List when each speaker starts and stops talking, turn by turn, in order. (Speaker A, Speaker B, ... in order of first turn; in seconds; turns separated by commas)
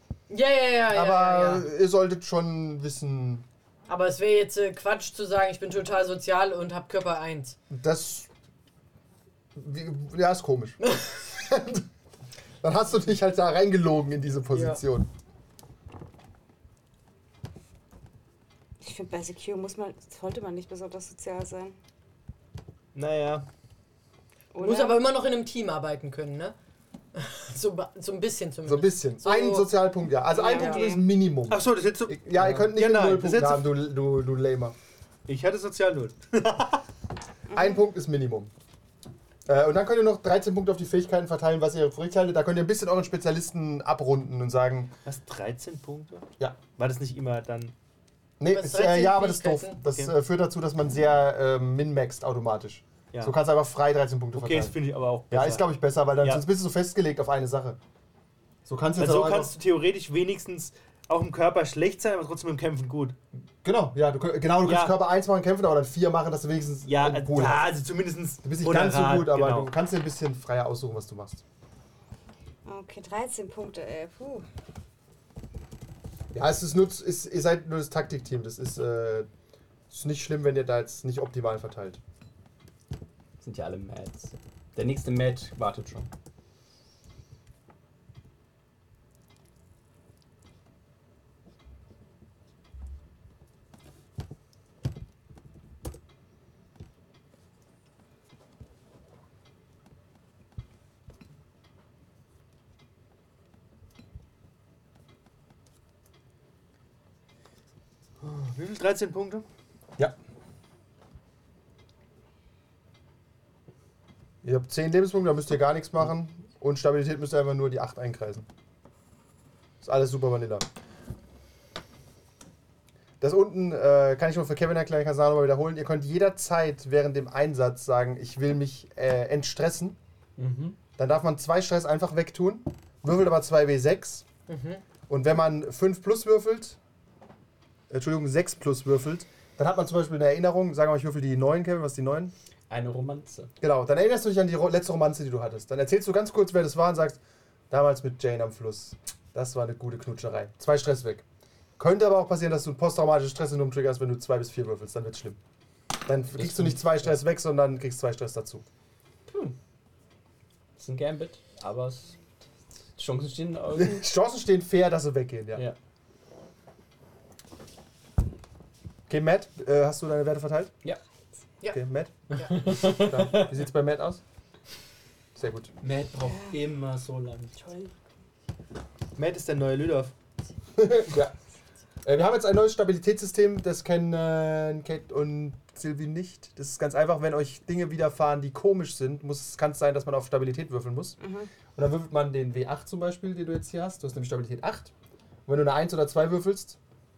Speaker A: 0.3-1.7, Speaker B: 0.9-3.5, Speaker A: 3.9-7.6, Speaker B: 7.7-8.3, Speaker B: 9.6-11.8, Speaker B: 12.6-15.1, Speaker A: 14.5-14.8, Speaker C: 18.8-21.8, Speaker D: 22.9-23.5, Speaker C: 24.5-25.0, Speaker A: 24.6-26.6, Speaker A: 27.1-31.1, Speaker B: 28.7-34.8, Speaker C: 30.3-31.1, Speaker D: 31.5-33.7, Speaker D: 35.3-36.8, Speaker C: 37.5-37.8, Speaker B: 37.5-38.5, Speaker B: 39.5-44.9, Speaker D: 45.0-47.7, Speaker B: 48.4-54.8, Speaker A: 48.5-49.8, Speaker D: 49.9-50.1, Speaker D: 54.4-55.7, Speaker B: 55.3-57.8, Speaker B: 58.7-59.6, Speaker D: 59.0-63.2, Speaker B: 63.6-67.7, Speaker D: 64.7-65.0, Speaker D: 66.9-69.7, Speaker B: 68.4-71.4, Speaker C: 72.7-74.5, Speaker B: 76.3-79.3, Speaker B: 79.9-82.0, Speaker E: 83.4-86.1, Speaker D: 108.2-109.5, Speaker B: 114.4-118.5, Speaker B: 119.8-120.7, Speaker B: 123.2-130.0, Speaker E: 130.4-130.8, Speaker B: 131.0-134.2, Speaker A: 134.5-134.8, Speaker B: 135.1-136.8, Speaker B: 137.9-142.3, Speaker E: 142.7-143.5, Speaker B: 143.6-151.2, Speaker B: 151.8-155.4, Speaker B: 156.1-158.7, Speaker E: 156.4-157.0, Speaker E: 159.3-159.6, Speaker E: 160.8-162.2, Speaker E: 163.0-164.1, Speaker B: 163.8-165.7, Speaker B: 169.1-170.7, Speaker B: 171.7-174.2, Speaker A: 172.3-172.6, Speaker E: 172.4-173.5, Speaker B: 175.3-175.7, Speaker E: 175.8-177.6, Speaker C: 176.2-176.6, Speaker C: 177.6-177.9, Speaker D: 179.2-180.1, Speaker B: 180.8-181.3, Speaker B: 182.0-191.2, Speaker C: 191.2-191.5, Speaker B: 191.8-194.9, Speaker B: 195.5-196.8